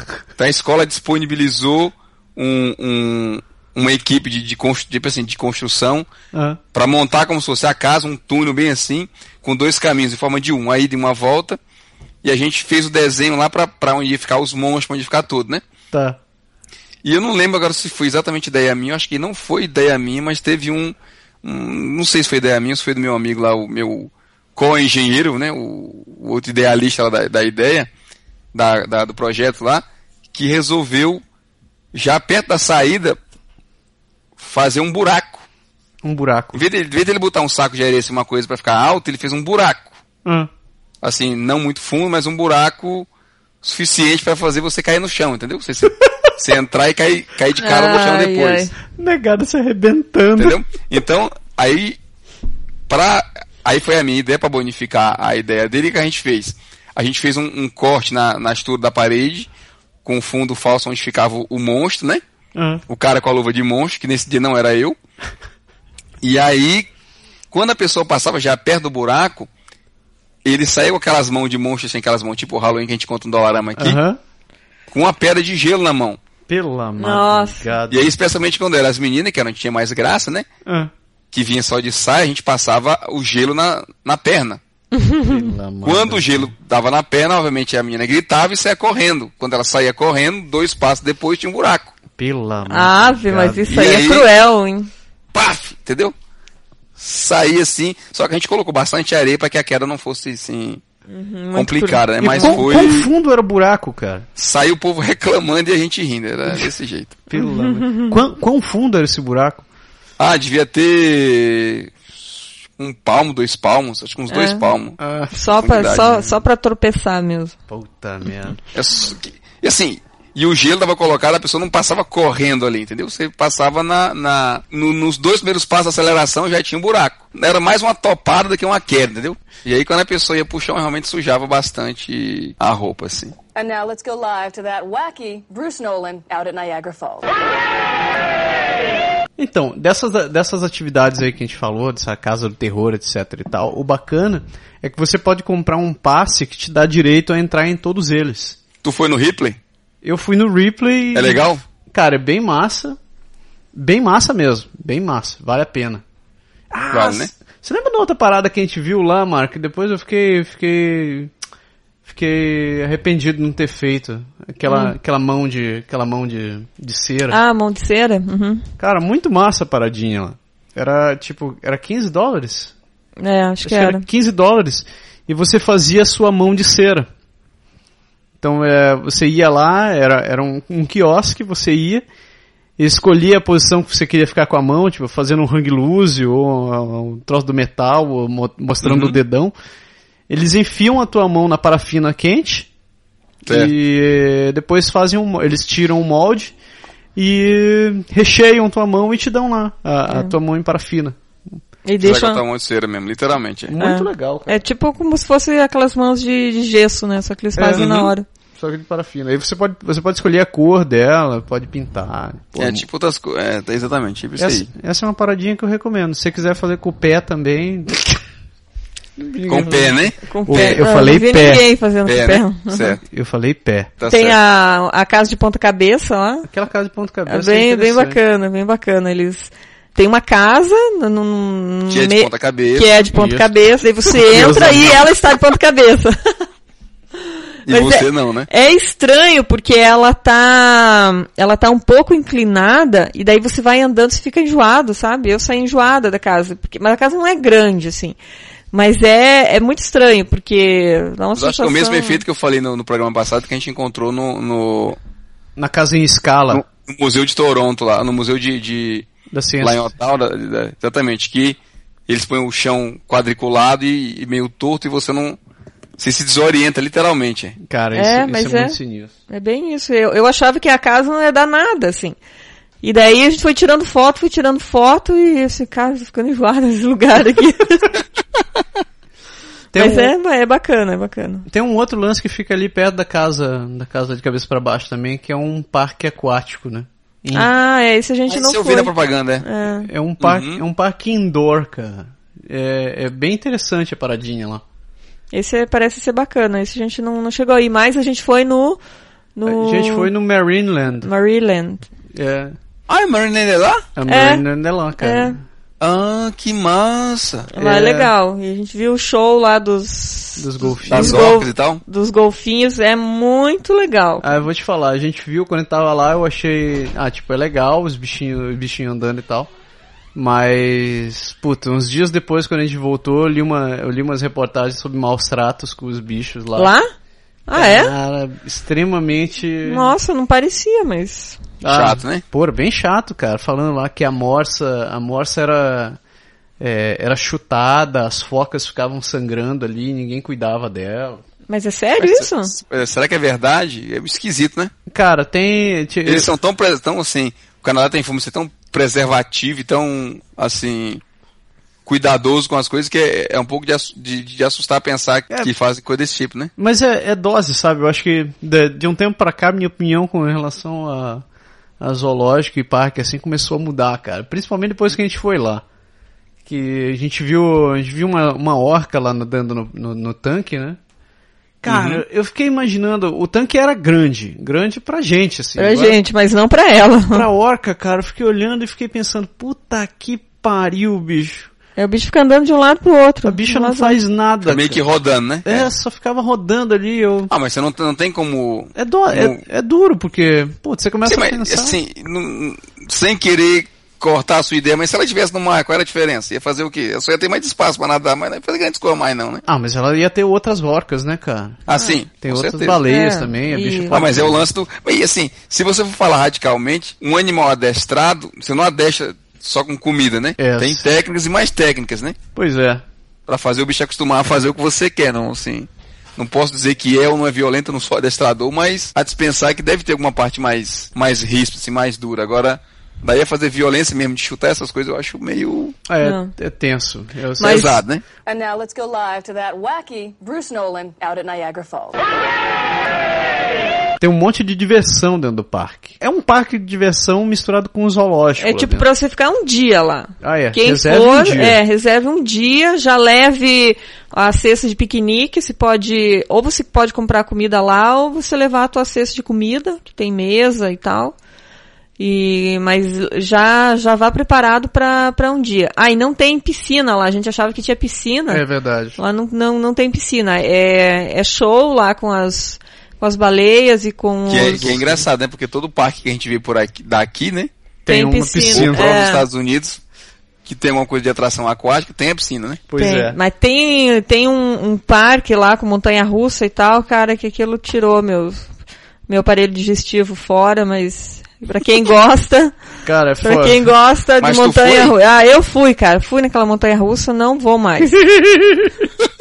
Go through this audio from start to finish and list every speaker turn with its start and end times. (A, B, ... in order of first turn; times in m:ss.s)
0:00.4-0:06.1 A
0:06.3-0:06.6 B
0:06.7-0:11.6 A
0:12.2-0:15.6 A
0:15.9-0:16.2 B
0:17.0-0:27.9 A
0:28.5-0:29.8 A
0:30.3-0:31.2 A
0:31.9-0:33.2 A
0:34.4-0:35.4 A
0:36.0-0:36.6 B
0:36.5-0:40.0 A
0:40.2-0:40.5 B
0:41.0-0:43.1 A
0:43.6-0:48.7 A
0:47.6-0:48.7 C
0:48.9-0:50.6 B
0:50.4-0:52.0 A
0:52.9-0:59.5 A
1:00.0-1:02.2 A
1:02.6-1:02.8 B
1:02.9-1:05.0 A
1:06.2-1:06.9 A
1:07.5-1:09.5 A
1:10.4-1:14.0 A
1:13.8-1:14.2 B
1:14.9-1:16.2 A
1:16.5-1:18.1 B
1:17.0-1:17.7 C
1:17.9-1:20.5 A
1:20.6-1:20.9 B
1:21.3-1:24.6 A
1:24.9-1:25.3 C
1:25.2-1:26.5 B
1:25.8-1:31.9 A
1:32.2-1:33.8 B
1:32.7-1:34.9 C
1:33.7-1:34.3 A
1:35.3-1:36.1 A
1:37.0-1:40.8 A
1:41.1-1:43.0 C
1:41.5-1:43.1 A
1:42.2-1:44.2 B
1:44.4-1:47.2 A
1:47.3-1:49.6 B
1:47.4-1:48.2 C
1:50.2-1:55.0 A
1:54.3-1:54.6 C
1:55.0-1:56.2 B
1:55.3-1:57.5 C
1:55.6-1:56.2 A
1:57.7-1:58.6 B
1:58.7-2:13.3 A
2:13.6-2:17.3 D
2:19.4-2:28.6 B
2:28.8-2:29.6 A
2:30.0-2:33.0 B
2:31.1-2:31.6 A
2:33.7-2:36.0 B
2:36.7-2:41.3 B
2:36.9-2:37.3 A
2:42.0-2:47.4 B
2:44.7-2:44.9 C
2:47.3-2:48.6 C
2:48.8-2:52.7 B
2:53.2-2:54.0 C
2:53.6-2:57.1 B
2:58.4-3:02.0 B
3:02.8-3:09.5 B
3:08.8-3:09.2 A
3:10.3-3:12.7 B
3:13.4-3:13.7 A
3:13.5-3:16.5 B
3:17.2-3:21.2 B
3:20.1-3:20.3 C
3:21.8-3:22.4 C
3:22.0-3:23.7 A
3:23.7-3:24.6 B
3:23.8-3:28.2 C
3:27.6-3:27.9 B
3:27.7-3:28.1 A
3:28.6-3:32.8 B
3:32.6-3:34.7 A
3:34.4-3:38.2 B
3:39.2-3:41.6 B
3:39.5-3:40.8 A
3:40.3-3:43.0 C
3:42.0-3:43.0 A
3:43.0-3:43.9 B
3:44.0-3:44.4 A
3:44.1-3:46.5 C
3:46.5-3:48.2 B
3:47.3-3:56.3 C
3:51.9-3:52.9 A
3:53.1-3:53.5 B
3:54.1-3:55.0 B
3:57.7-3:58.5 A
3:57.7-4:08.2 C
4:08.7-4:12.2 C
4:11.4-4:15.0 A
4:15.6-4:16.6 B
4:16.5-4:19.1 A
4:19.3-4:19.9 B
4:19.6-4:25.4 A
4:26.0-4:27.6 A
4:27.6-4:29.1 B
4:27.9-4:28.8 C
4:29.3-4:32.2 C
4:32.8-4:37.9 C
4:39.7-4:40.1 B
4:39.7-4:41.4 C
4:41.5-4:47.5 B
4:47.3-4:49.9 C
4:48.3-4:49.4 A
4:49.7-4:54.6 B
4:50.2-4:50.6 A
4:55.3-4:58.8 C
4:59.4-5:00.1 C
4:59.4-5:01.1 B
5:01.0-5:01.8 C
5:02.1-5:02.6 B
5:02.9-5:03.8 A
5:04.0-5:05.4 B
5:04.1-5:04.4 C
5:05.0-5:05.4 C
5:05.8-5:07.5 A
5:07.5-5:14.4 C
5:07.6-5:08.1 B
5:10.4-5:11.3 B
5:10.9-5:11.8 A
5:14.2-5:19.5 B
5:20.1-5:26.7 B
5:26.5-5:26.9 C
5:27.5-5:27.9 C
5:27.5-5:29.9 B
5:29.6-5:31.4 C
5:31.6-5:36.0 B
5:31.7-5:32.2 A
5:36.6-5:41.2 B
5:41.5-5:42.5 C
5:42.0-5:44.7 A
5:44.9-5:46.3 B
5:46.0-5:51.0 A
5:51.8-5:56.5 A
5:56.6-6:01.2 B
6:01.8-6:05.6 B
6:06.4-6:10.8 B
6:11.6-6:16.0 B
6:11.7-6:12.0 A
6:15.6-6:17.2 C
6:17.1-6:21.5 B
6:21.8-6:24.0 C
6:23.2-6:24.8 B
6:24.4-6:25.7 A
6:25.4-6:27.3 B
6:27.3-6:29.4 A
6:28.8-6:31.8 B
6:31.0-6:39.4 A
6:39.4-6:44.4 B
6:41.7-6:42.8 A
6:42.9-6:44.0 C
6:43.9-6:52.2 A
6:50.4-6:50.8 B
6:52.3-6:52.8 B
6:53.3-7:05.8 A
7:05.9-7:07.8 B
7:06.0-7:06.3 C
7:07.4-7:07.8 C
7:07.4-7:08.0 A
7:08.2-7:12.0 D
7:14.0-7:18.8 B
7:18.4-7:31.1 C
7:20.2-7:21.6 B
7:32.0-7:38.4 C
7:38.3-7:39.0 B
7:39.0-7:44.7 C
7:44.3-7:47.5 A
7:44.4-7:45.0 B
7:47.8-7:48.9 B
7:47.9-7:49.2 C
7:48.5-7:49.8 A
7:50.4-7:52.6 A
7:52.7-7:53.2 B
7:52.8-7:58.5 C
7:59.1-8:02.6 C
8:02.8-8:03.7 B
8:03.2-8:08.0 C
8:04.2-8:04.9 A
8:07.9-8:08.7 B